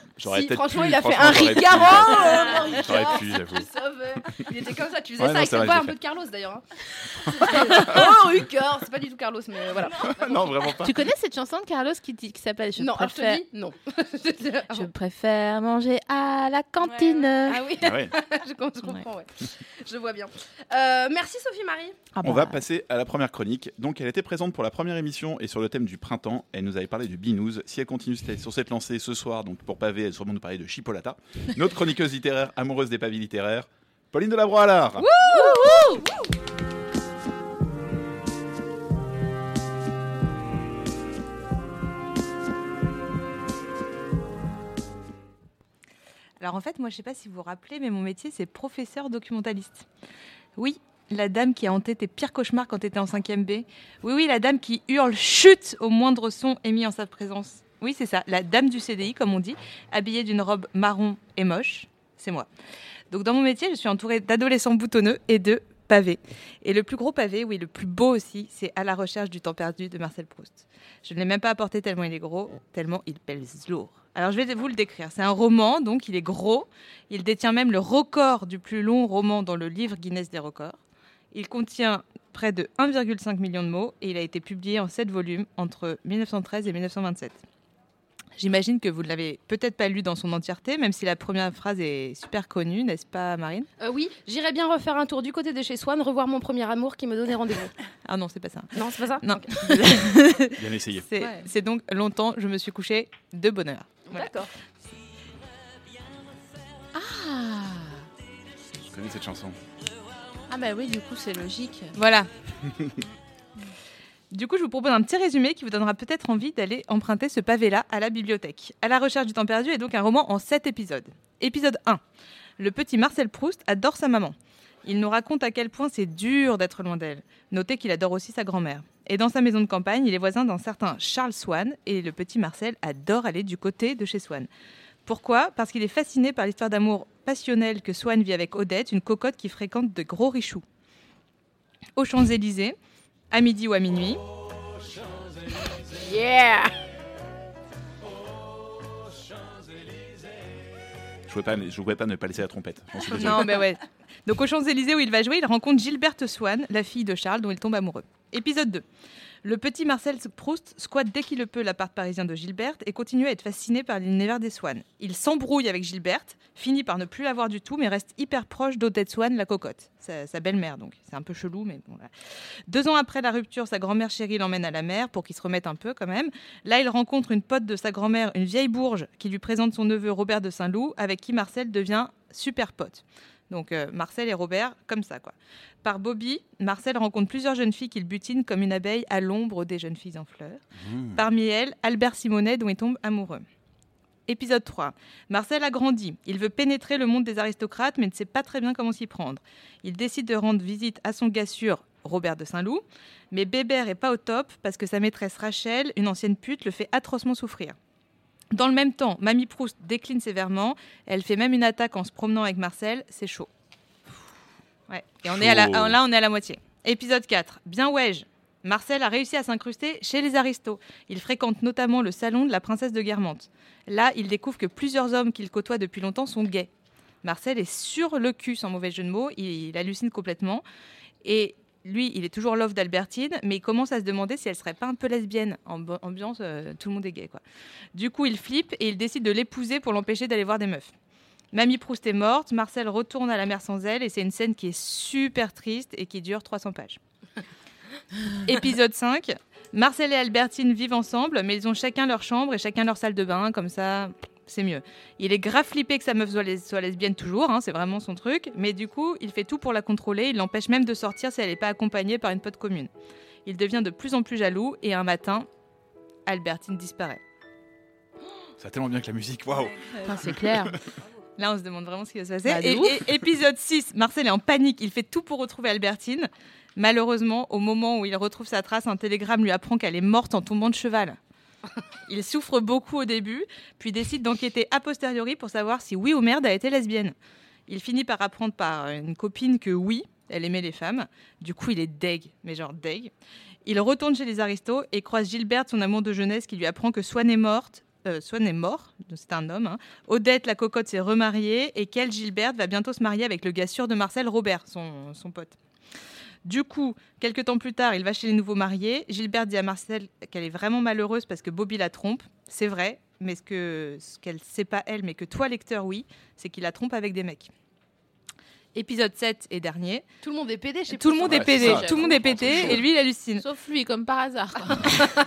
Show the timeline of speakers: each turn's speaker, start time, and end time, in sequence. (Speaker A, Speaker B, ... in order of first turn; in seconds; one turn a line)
Speaker A: 0.2-3.7
Speaker B: 0.2-10.8
Speaker A: 5.2-5.9
Speaker A: 7.3-8.1
Speaker A: 10.0-11.0
Speaker C: 10.8-13.4
Speaker B: 12.8-14.9
Speaker C: 14.7-17.6
Speaker B: 17.4-22.0
Speaker A: 17.8-18.1
Speaker C: 22.1-22.6
Speaker A: 22.2-35.1
Speaker B: 35.0-36.2
Speaker C: 35.3-35.9
Speaker D: 46.4-49.9
Speaker D: 50.6-62.5
Speaker D: 63.1-80.8
Speaker D: 81.3-87.4
Speaker D: 88.4-93.7
Speaker B: 93.8-97.7
Speaker D: 98.1-104.4
Speaker B: 98.8-99.6
Speaker A: 100.6-101.0
Speaker B: 104.1-104.5
Speaker C: 107.0-108.0
Speaker A: 108.8-109.6
Speaker C: 110.5-112.0
Speaker D: 112.0-112.3
Speaker D: 114.3-122.0
Speaker D: 122.6-134.5
Speaker D: 135.1-140.6
Speaker D: 142.0-142.8
Speaker D: 143.3-144.2
Speaker B: 146.1-146.7
Speaker A: 151.3-153.4
Speaker D: 153.1-158.8
Speaker C: 153.2-153.6
Speaker D: 159.4-172.1
Speaker D: 172.7-190.6
Speaker A: 190.8-191.2
Speaker D: 191.1-193.4
Speaker D: 194.3-207.8
Speaker D: 208.5-213.5
Speaker D: 214.9-226.7
Speaker A: 215.3-216.0
Speaker D: 227.2-230.6
Speaker D: 231.2-237.4
Speaker D: 237.9-240.9
Speaker D: 241.5-247.0
Speaker D: 248.5-262.9
Speaker D: 263.4-265.5
Speaker D: 266.3-267.2
Speaker A: 268.6-270.6
Speaker C: 270.0-270.8
Speaker D: 271.4-281.2
Speaker C: 272.5-273.0
Speaker D: 282.1-287.1
Speaker D: 287.7-293.1
Speaker D: 293.7-305.6
Speaker D: 306.5-317.5
Speaker D: 318.7-320.1
Speaker B: 320.2-322.7
Speaker D: 320.9-323.4
Speaker A: 321.3-322.8
Speaker C: 321.6-322.8
Speaker C: 323.4-324.9